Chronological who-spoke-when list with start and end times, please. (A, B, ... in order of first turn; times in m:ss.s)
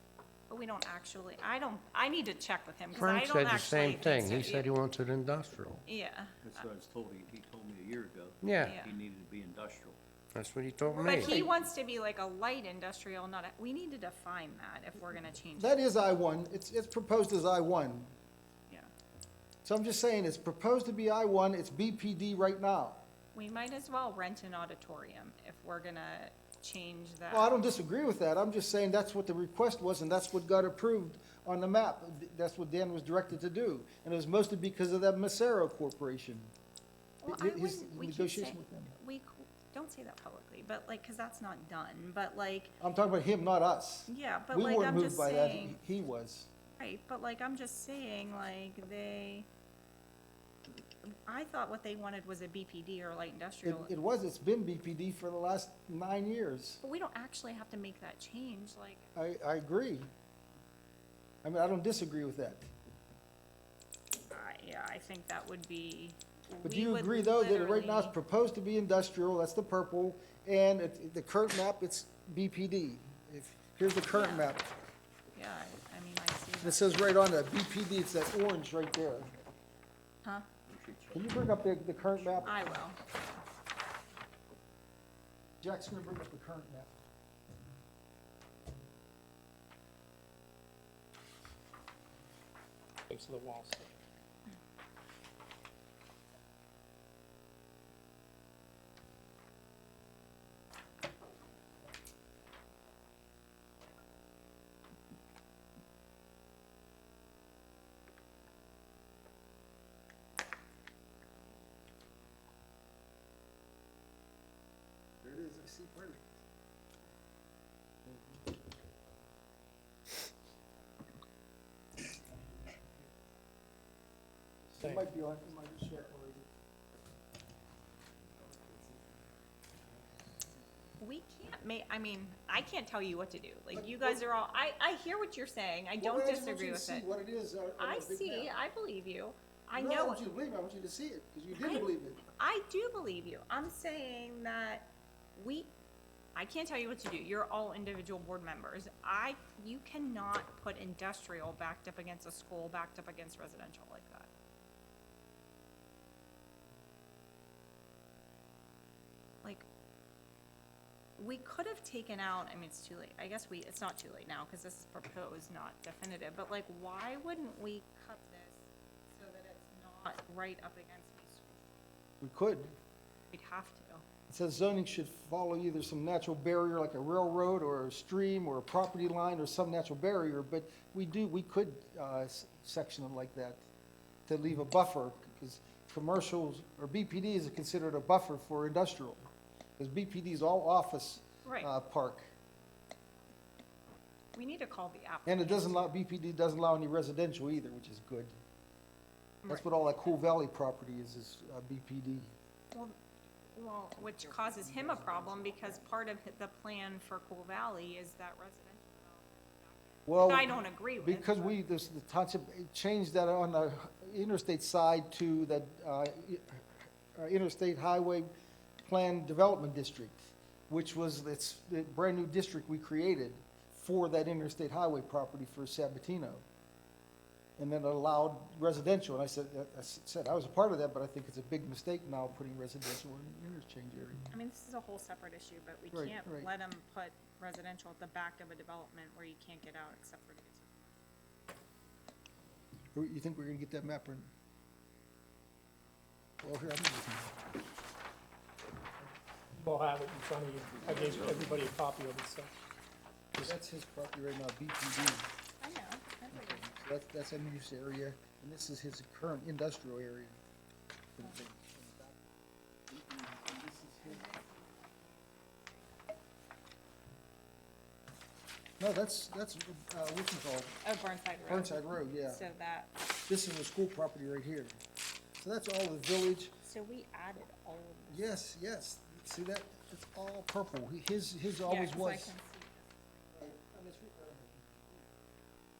0:00.5-0:04.7 A
0:02.9-0:05.8 B
0:05.9-0:06.4 A
0:06.4-0:10.0 C
0:08.4-0:08.8 B
0:08.6-0:09.0 A
0:10.3-0:11.4 B
0:11.0-0:15.8 A
0:15.6-0:18.1 D
0:19.6-0:23.0 D
0:23.3-0:27.6 A
0:27.3-0:36.5 D
0:37.2-0:42.8 A
0:37.3-0:38.9 D
0:42.8-0:46.5 D
0:44.1-0:45.8 A
0:46.8-0:49.5 A
0:51.0-0:53.9 A
0:53.6-0:56.8 D
0:56.8-0:59.1 A
0:59.2-1:00.1 D
1:01.4-1:02.7 D
1:04.3-1:08.2 A
1:06.6-1:14.7 D
1:14.1-1:14.5 A
1:15.3-1:17.1 A
1:16.6-1:19.3 D
1:20.7-1:21.4 C
1:21.1-1:22.7 D
1:22.0-1:22.6 C
1:22.4-1:23.0 A
1:25.6-1:26.9 D
1:33.1-1:33.9 E
1:55.2-1:56.3 D
1:58.0-1:58.6 D
2:04.7-2:06.5 D
2:04.8-2:05.1 E
2:08.4-2:09.2 D
2:11.0-2:17.0 A
2:13.7-2:14.2 D
2:16.0-2:18.5 D
2:17.8-2:20.2 A
2:19.7-2:22.2 D
2:21.5-2:25.7 A
2:26.4-2:34.3 A
2:41.2-2:51.8 A
2:52.2-2:52.8 D
2:53.3-2:54.0 A
2:54.3-3:03.7 D
3:04.3-3:12.3 D
3:11.4-3:11.7 A
3:14.4-3:15.9 A
3:15.3-3:18.3 D
3:19.5-3:22.3 D
3:22.7-3:23.0 A
3:23.5-3:31.6 A
3:24.7-3:25.4 D
3:30.1-3:38.3 D
3:38.8-3:46.4 D
3:47.6-3:54.3 D
3:54.3-4:01.1 A
3:55.9-3:56.5 D
4:02.9-4:04.3 D
4:06.4-4:07.3 D
4:09.6-4:12.5 E
4:13.4-4:15.3 D
4:15.6-4:16.6 A
4:16.3-4:20.4 D
4:21.2-4:22.3 D
4:22.9-4:24.3 D
4:23.8-4:26.1 A
4:28.8-4:30.8 D
4:30.8-4:33.0 A
4:31.5-4:32.5 D
4:33.3-4:34.8 D
4:35.4-4:36.6 D
4:36.6-4:38.4 A
4:38.1-4:42.4 D
4:41.7-4:43.5 A
4:43.4-4:45.3 D